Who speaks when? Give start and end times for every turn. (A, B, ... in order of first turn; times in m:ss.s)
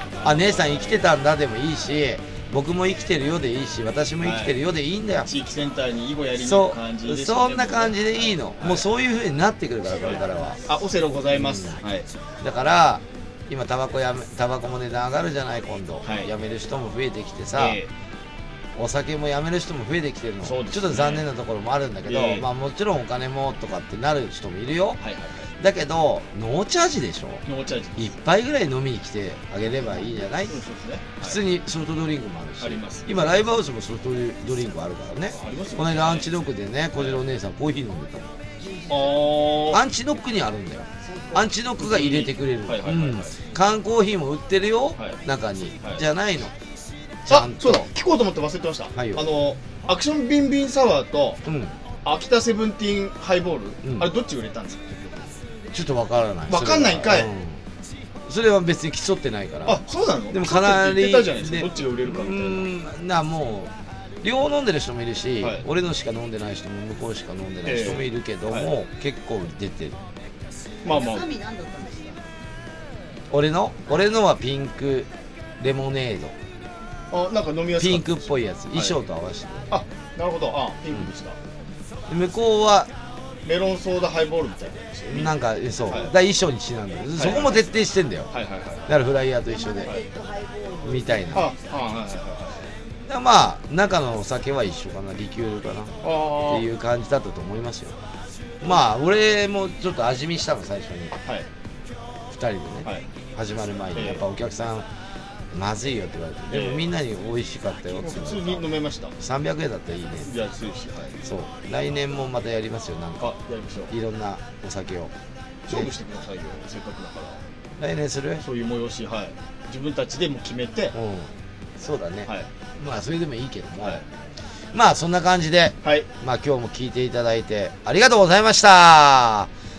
0:00.1-0:01.0 A
0:00.2-0:05.3 B
0:04.2-0:04.5 A
0:05.2-0:08.9 A
0:06.4-0:10.6 B
0:10.0-0:12.1 A
0:11.3-0:11.8 B
0:12.4-0:17.8 B
0:16.0-0:16.3 A
0:17.5-0:17.9 A
0:18.8-0:25.0 B
0:20.4-0:21.2 A
0:22.0-0:22.5 A
0:25.0-0:25.5 A
0:25.6-0:27.4 B
0:27.4-0:28.2 A
0:28.0-0:30.5 B
0:29.9-0:30.2 C
0:30.4-0:31.4 A
0:31.2-0:38.3 B
0:32.6-0:33.5 A
0:35.3-0:36.3 A
0:36.9-0:37.2 A
0:38.6-0:39.3 C
0:38.9-0:39.8 A
0:39.7-0:46.5 B
0:41.0-0:41.5 C
0:41.8-0:43.4 A
0:45.0-0:45.2 A
0:47.2-0:47.9 B
0:47.3-0:51.4 A
0:48.9-0:49.3 B
0:51.4-0:51.7 B
0:52.0-0:55.3 A
0:53.8-0:54.1 B
0:55.7-0:57.6 B
0:56.5-0:57.3 A
0:58.3-1:10.0 B
0:59.6-1:02.7 A
1:05.4-1:05.6 A
1:07.6-1:08.7 A
1:10.8-1:11.3 A
1:10.8-1:12.2 C
1:13.3-1:16.4 B
1:17.1-1:19.0 A
1:17.8-1:19.7 B
1:19.7-1:21.4 A
1:22.1-1:22.9 B
1:23.4-1:26.1 A
1:25.1-1:28.3 B
1:27.1-1:27.7 A
1:28.3-1:29.0 A
1:28.9-1:30.0 B
1:29.4-1:31.5 C
1:30.8-1:31.5 B
1:31.3-1:32.7 A
1:33.0-1:38.0 B
1:36.0-1:36.7 A
1:38.6-1:41.2 B
1:42.3-1:44.9 B
1:43.9-1:44.2 A
1:45.5-1:48.7 B
1:46.5-1:46.9 A
1:47.9-1:49.2 A
1:49.2-1:50.3 B
1:50.2-1:51.2 A
1:51.2-1:53.3 B
1:53.2-1:53.9 A
1:53.9-1:55.1 B
1:55.7-1:57.4 A
1:57.8-1:58.4 B
1:58.4-2:01.0 A
2:00.9-2:04.0 B
2:03.8-2:04.0 A
2:04.7-2:09.5 B
2:05.8-2:06.1 A